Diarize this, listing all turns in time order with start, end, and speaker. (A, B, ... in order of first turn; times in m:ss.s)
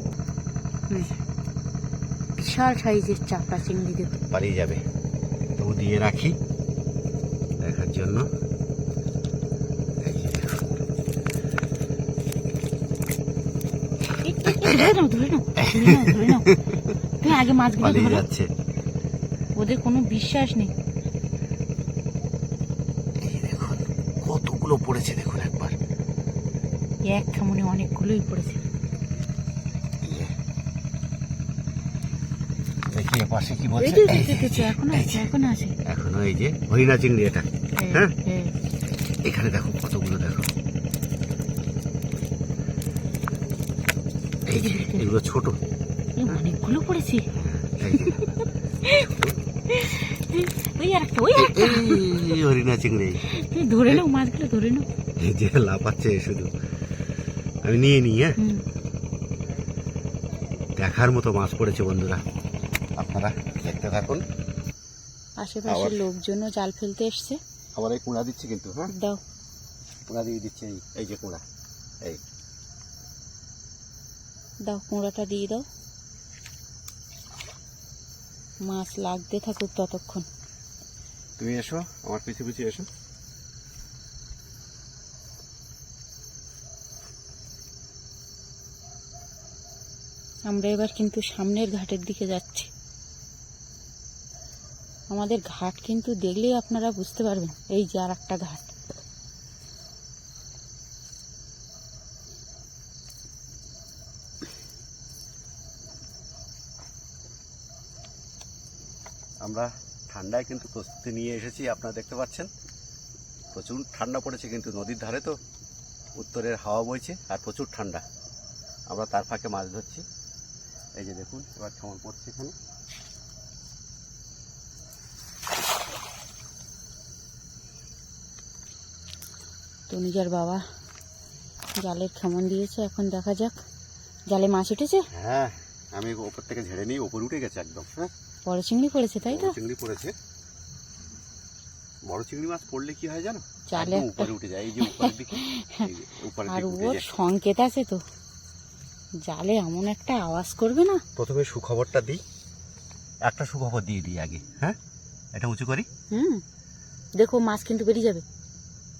0:02.4-0:04.2 A
0:04.3-0:04.8 B
0:05.6-0:06.4 B
0:07.6-0:08.3 B
0:10.0-0:10.7 B
0:14.2-0:16.5 A
0:14.5-0:14.9 B
0:15.6-0:17.0 B
0:17.2-0:18.2 A
0:17.8-0:18.5 B
0:19.6-0:20.7 A
0:23.2-0:25.8 B
0:27.0-0:28.6 A
0:30.0-0:30.3 B
0:32.9-0:35.3 B
0:33.8-0:35.8 A
0:35.8-0:38.2 B
0:37.8-0:38.5 A
0:39.2-0:40.5 B
0:44.5-0:45.6 B
0:44.6-0:45.1 A
0:46.2-0:47.3 A
0:47.3-0:48.4 B
0:47.9-0:48.3 A
0:48.8-0:49.1 A
0:48.9-0:49.4 B
0:49.7-0:52.4 A
0:51.4-0:53.2 B
0:53.2-0:54.9 A
0:55.2-0:56.5 B
0:57.6-0:58.4 B
0:58.4-0:58.6 A
1:00.8-1:02.2 B
1:03.0-1:04.2 B
1:05.4-1:07.4 A
1:05.7-1:06.0 B
1:07.8-1:08.9 B
1:08.9-1:09.2 A
1:10.1-1:11.4 B
1:14.7-1:15.6 A
1:18.6-1:20.3 A
1:21.4-1:22.9 B
1:30.5-1:32.7 A
1:35.1-1:38.7 A
1:49.4-1:52.5 B
1:53.5-1:55.4 B
1:56.2-1:58.0 B
1:58.9-2:00.0 B
2:01.0-2:02.6 B
2:09.9-2:10.6 A
2:11.8-2:13.6 A
2:14.3-2:15.1 A
2:15.1-2:18.1 B
2:18.5-2:19.6 A
2:19.2-2:20.1 B
2:22.1-2:27.1 B
2:23.7-2:25.9 A
2:26.5-2:28.0 A
2:29.3-2:31.0 A
2:31.2-2:32.2 B
2:33.3-2:34.8 B
2:35.4-2:35.9 B
2:36.1-2:36.4 A
2:37.2-2:38.2 A